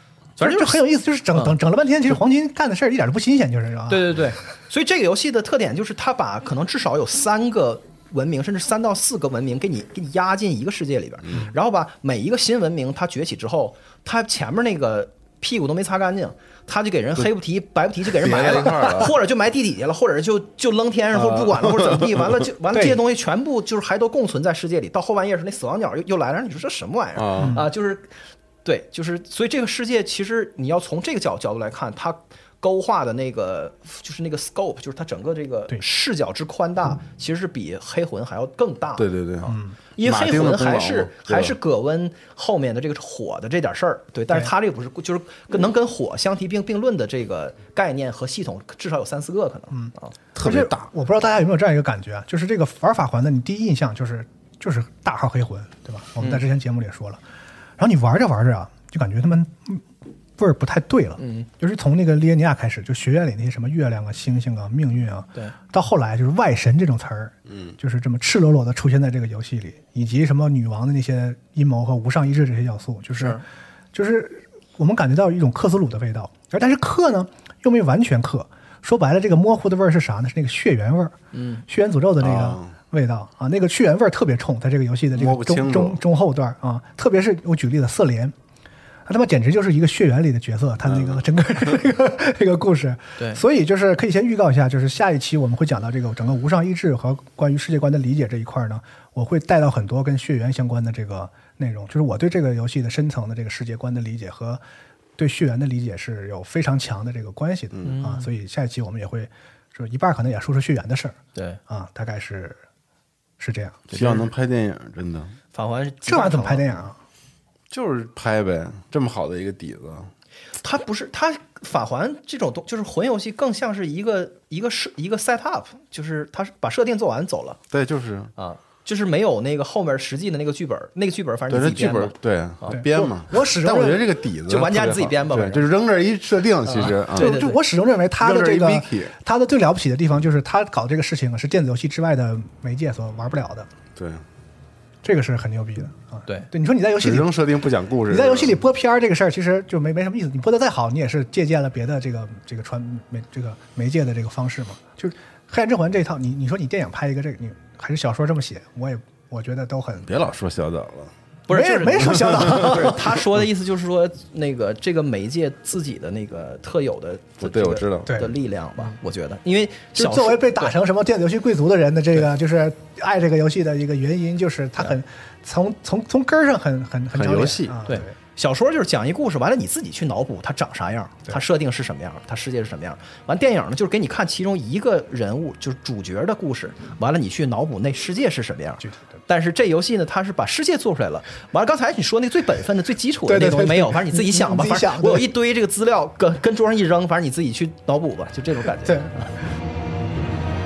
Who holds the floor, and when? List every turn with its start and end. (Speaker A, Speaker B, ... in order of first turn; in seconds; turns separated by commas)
Speaker A: 0.4-0.8, Speaker B: 0.4-4.2, Speaker A: 3.9-39.1, Speaker C: 18.1-19.1, Speaker C: 21.1-22.1, Speaker B: 22.7-23.0, Speaker C: 27.1-27.6, Speaker B: 27.4-27.6, Speaker C: 39.0-41.5, Speaker B: 39.4-39.8, Speaker A: 39.9-50.1, Speaker B: 49.7-57.2, Speaker C: 50.3-50.9, Speaker B: 57.8-59.8, Speaker B: 60.4-73.4, Speaker A: 61.2-61.5, Speaker C: 67.5-67.7, Speaker A: 73.2-73.4, Speaker B: 73.9-88.3, Speaker A: 81.3-81.6, Speaker C: 82.2-82.7, Speaker C: 85.1-86.0, Speaker B: 89.1-104.6, Speaker C: 90.9-91.2, Speaker A: 93.2-93.4, Speaker B: 105.2-112.6, Speaker A: 107.8-108.3, Speaker B: 113.4-114.0, Speaker A: 113.9-114.2, Speaker C: 113.9-115.3, Speaker A: 115.5-116.9, Speaker B: 116.0-117.0, Speaker C: 117.7-120.1, Speaker A: 120.6-127.6, Speaker C: 127.7-128.3, Speaker A: 128.3-132.8, Speaker C: 131.5-137.3, Speaker B: 132.7-134.1, Speaker A: 134.4-135.7, Speaker A: 136.6-137.6, Speaker B: 137.1-143.7, Speaker C: 138.2-139.1, Speaker C: 143.9-144.2, Speaker B: 145.0-147.4, Speaker C: 147.0-148.6, Speaker B: 148.0-160.1, Speaker C: 160.0-161.1, Speaker A: 161.5-170.7, Speaker B: 161.5-163.1, Speaker C: 162.3-162.8, Speaker C: 167.4-168.2, Speaker B: 168.1-168.3, Speaker B: 169.9-178.1, Speaker C: 177.1-177.8, Speaker A: 177.8-199.3, Speaker B: 188.8-189.2, Speaker B: 193.3-195.3, Speaker B: 198.8-199.3